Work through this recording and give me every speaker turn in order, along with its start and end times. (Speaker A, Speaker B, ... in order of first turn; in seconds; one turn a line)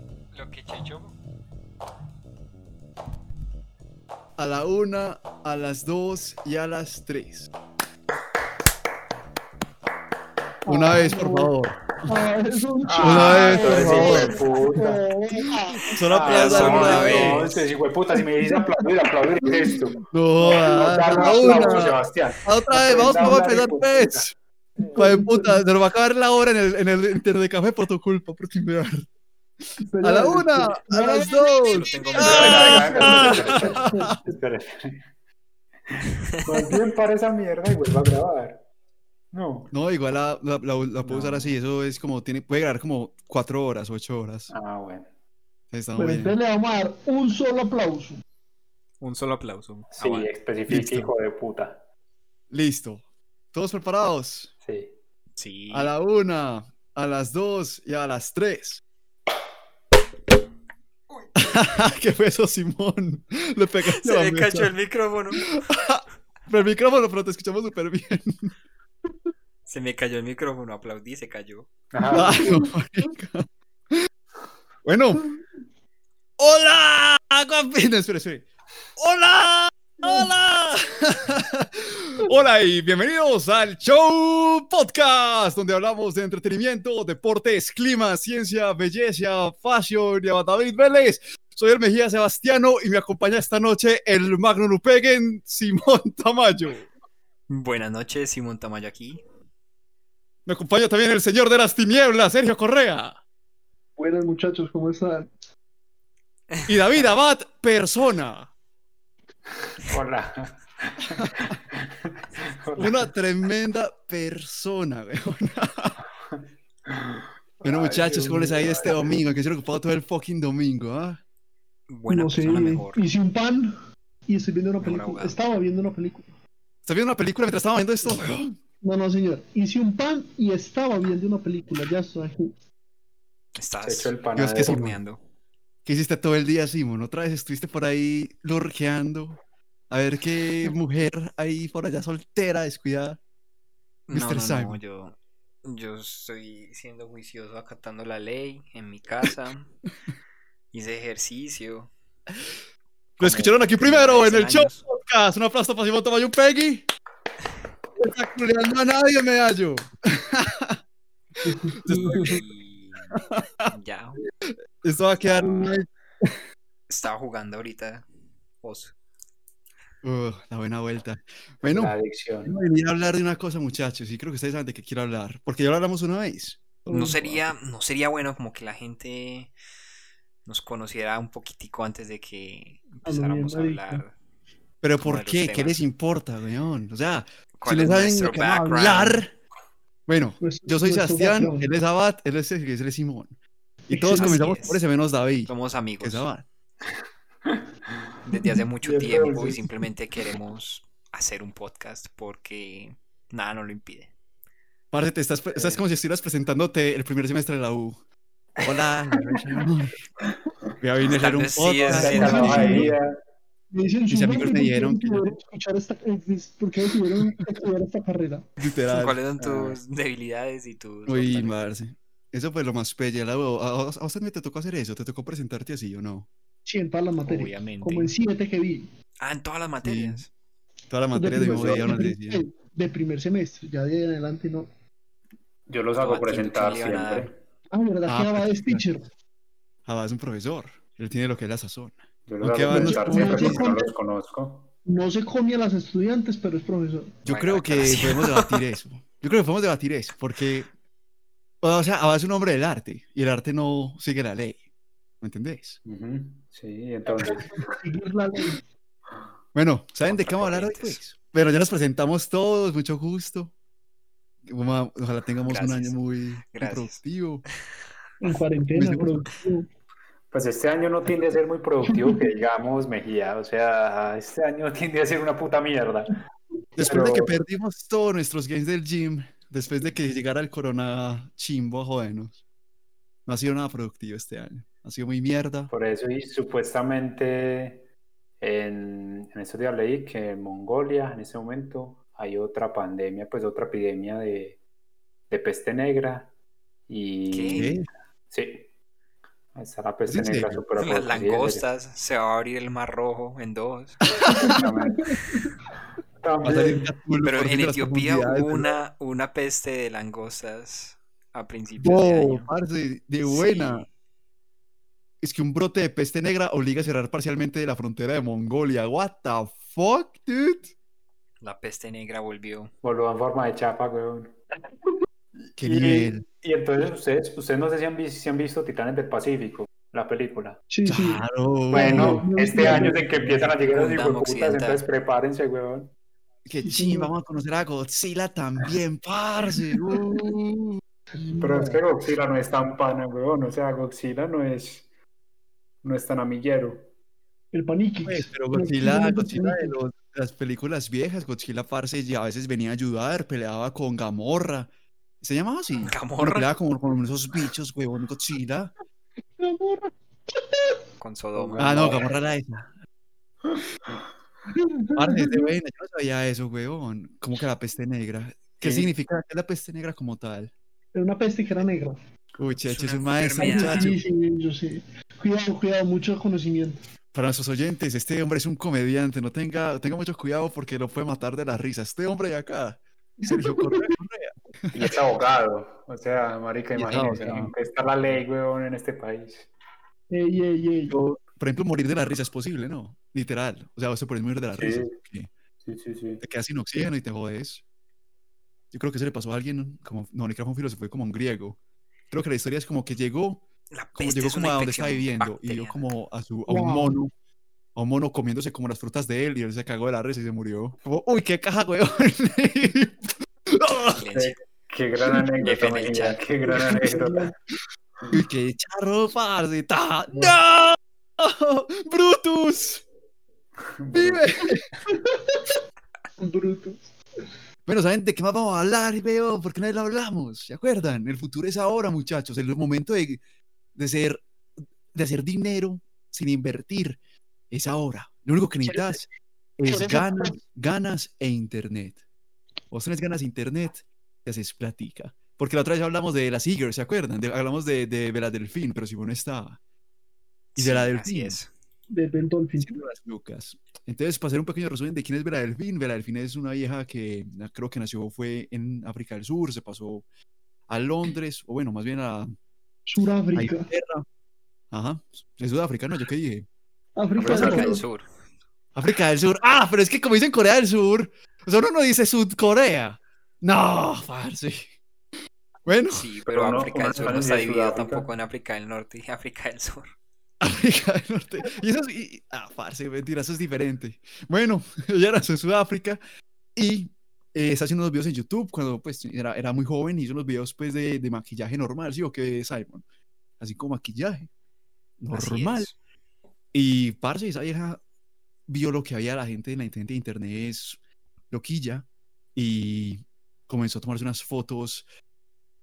Speaker A: 0.3-1.1
Speaker B: 4.4-7.5
Speaker C: 10.6-11.5
Speaker B: 10.7-12.2
Speaker C: 12.0-16.0
Speaker D: 12.8-15.0
Speaker B: 13.0-14.4
Speaker B: 15.4-17.5
Speaker D: 16.0-24.3
Speaker A: 16.2-17.7
Speaker C: 18.4-19.8
Speaker B: 20.1-24.3
Speaker C: 20.4-21.9
Speaker C: 24.8-25.6
Speaker B: 24.9-29.1
Speaker C: 29.8-34.3
Speaker B: 30.0-34.2
Speaker A: 31.7-33.7
Speaker D: 32.1-35.0
Speaker D: 35.9-38.6
Speaker A: 36.5-36.8
Speaker D: 39.3-39.7
Speaker B: 39.7-44.5
Speaker A: 41.0-41.5
Speaker D: 44.5-45.1
Speaker B: 45.7-46.3
Speaker C: 46.0-48.2
Speaker A: 49.0-50.3
Speaker D: 50.0-51.8
Speaker B: 50.7-51.1
Speaker B: 52.5-53.0
Speaker B: 53.5-54.5
Speaker D: 54.6-54.9
Speaker A: 55.4-55.9
Speaker B: 55.7-58.8
Speaker B: 61.4-64.7
Speaker A: 63.9-65.5
Speaker B: 65.3-68.5
Speaker A: 69.7-71.7
Speaker D: 71.9-72.6
Speaker B: 72.1-74.1
Speaker C: 72.1-72.7
Speaker B: 74.8-75.4
Speaker B: 76.4-96.9
Speaker A: 97.5-99.2
Speaker B: 100.5-103.2
Speaker C: 104.0-105.3
Speaker B: 106.7-108.5
Speaker D: 109.8-113.1
Speaker B: 111.1-111.6
Speaker B: 112.8-116.0
Speaker D: 116.9-119.1
Speaker B: 117.6-121.2
Speaker C: 117.7-119.1
Speaker A: 121.9-123.0
Speaker C: 122.1-123.7
Speaker C: 124.3-126.3
Speaker A: 124.8-125.4
Speaker B: 126.8-128.6
Speaker C: 128.8-132.6
Speaker A: 133.6-135.2
Speaker D: 133.8-134.9
Speaker B: 134.4-135.0
Speaker B: 135.8-139.4
Speaker B: 139.9-143.2
Speaker A: 144.1-149.7
Speaker B: 144.1-144.8
Speaker A: 150.7-151.9
Speaker A: 153.2-154.8
Speaker B: 153.2-156.9
Speaker B: 158.0-160.8
Speaker C: 161.4-162.4
Speaker B: 161.5-162.4
Speaker A: 161.9-164.2
Speaker B: 163.1-163.7
Speaker B: 164.8-166.4
Speaker A: 165.2-165.8
Speaker A: 166.9-168.1
Speaker A: 168.6-168.9
Speaker B: 170.0-171.9
Speaker D: 171.6-172.6
Speaker B: 172.4-176.6
Speaker C: 176.9-177.5
Speaker A: 176.9-179.5
Speaker A: 180.5-184.2
Speaker C: 183.1-184.1
Speaker B: 184.8-189.3
Speaker A: 185.0-185.8
Speaker A: 187.6-189.3
Speaker B: 190.1-193.3
Speaker C: 190.4-191.7
Speaker B: 193.9-196.4
Speaker C: 193.9-194.7
Speaker A: 194.1-194.8
Speaker A: 195.5-196.3
Speaker A: 198.2-204.1
Speaker C: 198.3-198.6
Speaker D: 198.8-199.9
Speaker B: 204.9-208.0
Speaker B: 208.6-210.1
Speaker D: 208.6-209.6
Speaker B: 210.8-213.0
Speaker A: 211.0-212.7
Speaker D: 211.8-213.2
Speaker C: 212.1-212.9
Speaker C: 213.7-218.4
Speaker B: 214.1-215.4
Speaker B: 218.6-219.2
Speaker A: 218.6-221.6
Speaker D: 219.4-219.8
Speaker B: 221.1-226.3
Speaker C: 226.7-228.9
Speaker A: 227.3-228.1
Speaker A: 229.2-230.3
Speaker B: 229.8-230.3
Speaker B: 230.9-232.4
Speaker C: 231.1-234.7
Speaker D: 235.7-237.4
Speaker A: 236.0-237.3
Speaker C: 237.7-239.1
Speaker B: 238.1-238.9
Speaker B: 239.9-243.7
Speaker D: 242.3-244.7
Speaker C: 242.7-243.9
Speaker C: 244.9-247.1
Speaker B: 247.2-250.7
Speaker A: 247.3-248.6
Speaker B: 251.6-254.6
Speaker B: 255.2-255.8
Speaker D: 255.8-257.6
Speaker C: 257.1-258.6
Speaker B: 259.5-263.5
Speaker A: 260.0-261.0
Speaker B: 264.4-267.4
Speaker A: 265.4-266.0
Speaker A: 266.5-267.0
Speaker C: 268.2-269.7
Speaker B: 268.8-269.2
Speaker D: 270.3-276.2
Speaker C: 271.8-272.3
Speaker B: 276.8-282.4
Speaker D: 276.8-277.4
Speaker B: 283.3-285.7
Speaker D: 285.7-287.9
Speaker D: 288.4-294.6
Speaker D: 295.3-296.3
Speaker D: 296.9-297.8
Speaker A: 297.3-297.7
Speaker B: 297.5-297.9
Speaker D: 298.3-298.7
Speaker D: 299.5-301.6
Speaker B: 300.1-300.6
Speaker A: 300.8-304.0
Speaker D: 304.2-305.2
Speaker C: 304.3-305.4
Speaker D: 306.2-306.9
Speaker B: 306.4-308.8
Speaker A: 307.2-312.5
Speaker B: 311.8-313.9
Speaker A: 313.2-313.9
Speaker B: 315.2-320.7
Speaker A: 321.4-322.7
Speaker D: 322.8-324.4
Speaker B: 325.6-326.2
Speaker D: 325.6-330.6
Speaker C: 330.7-333.1
Speaker B: 330.8-333.5
Speaker D: 331.7-335.9
Speaker A: 333.6-334.8
Speaker B: 336.4-340.8
Speaker C: 336.6-337.1
Speaker C: 341.2-341.8
Speaker D: 341.4-344.9
Speaker D: 345.8-346.9
Speaker C: 347.5-349.8
Speaker B: 348.1-354.7
Speaker B: 355.2-358.7
Speaker A: 355.8-356.5
Speaker C: 359.4-360.8
Speaker A: 361.0-362.1
Speaker D: 361.3-362.1
Speaker B: 361.6-362.7
Speaker C: 364.5-365.5
Speaker B: 364.9-370.5
Speaker A: 368.6-368.9
Speaker C: 370.9-372.0
Speaker B: 372.4-374.0
Speaker A: 372.6-374.0
Speaker C: 373.4-376.8
Speaker B: 377.1-385.0
Speaker C: 383.2-383.9
Speaker D: 384.7-389.5
Speaker B: 386.7-387.5
Speaker C: 390.1-391.0
Speaker B: 390.9-395.3
Speaker D: 394.6-394.9
Speaker D: 395.6-396.2
Speaker B: 396.2-397.6
Speaker B: 398.7-401.6
Speaker B: 402.1-403.4
Speaker A: 403.7-405.9
Speaker B: 404.0-407.1
Speaker C: 406.5-406.9
Speaker B: 407.8-414.1
Speaker A: 413.9-414.4
Speaker D: 414.1-417.3
Speaker A: 415.4-416.2
Speaker C: 416.4-417.3
Speaker B: 418.1-422.8
Speaker D: 420.1-420.4
Speaker D: 423.8-424.6
Speaker B: 423.9-424.6
Speaker C: 424.9-425.4
Speaker C: 426.2-426.9
Speaker B: 427.6-433.2
Speaker B: 433.8-434.2
Speaker B: 434.9-437.0
Speaker B: 437.5-439.1
Speaker C: 438.7-439.1
Speaker B: 439.6-442.0
Speaker C: 439.7-440.4
Speaker B: 442.7-449.6
Speaker A: 450.5-451.5
Speaker B: 450.6-451.4
Speaker C: 451.9-452.8
Speaker B: 452.6-460.0
Speaker B: 460.7-462.3
Speaker C: 462.9-463.7
Speaker B: 463.3-464.1
Speaker B: 464.7-466.4
Speaker C: 466.9-467.8
Speaker A: 467.2-468.1
Speaker D: 467.2-467.7
Speaker B: 468.8-474.7
Speaker B: 475.6-476.1
Speaker A: 475.9-479.9
Speaker D: 476.3-478.1
Speaker B: 480.4-486.0
Speaker B: 486.5-492.8
Speaker B: 493.4-494.3
Speaker B: 495.0-495.7
Speaker A: 495.1-495.8
Speaker B: 496.5-497.8
Speaker B: 498.5-500.8
Speaker B: 501.3-504.9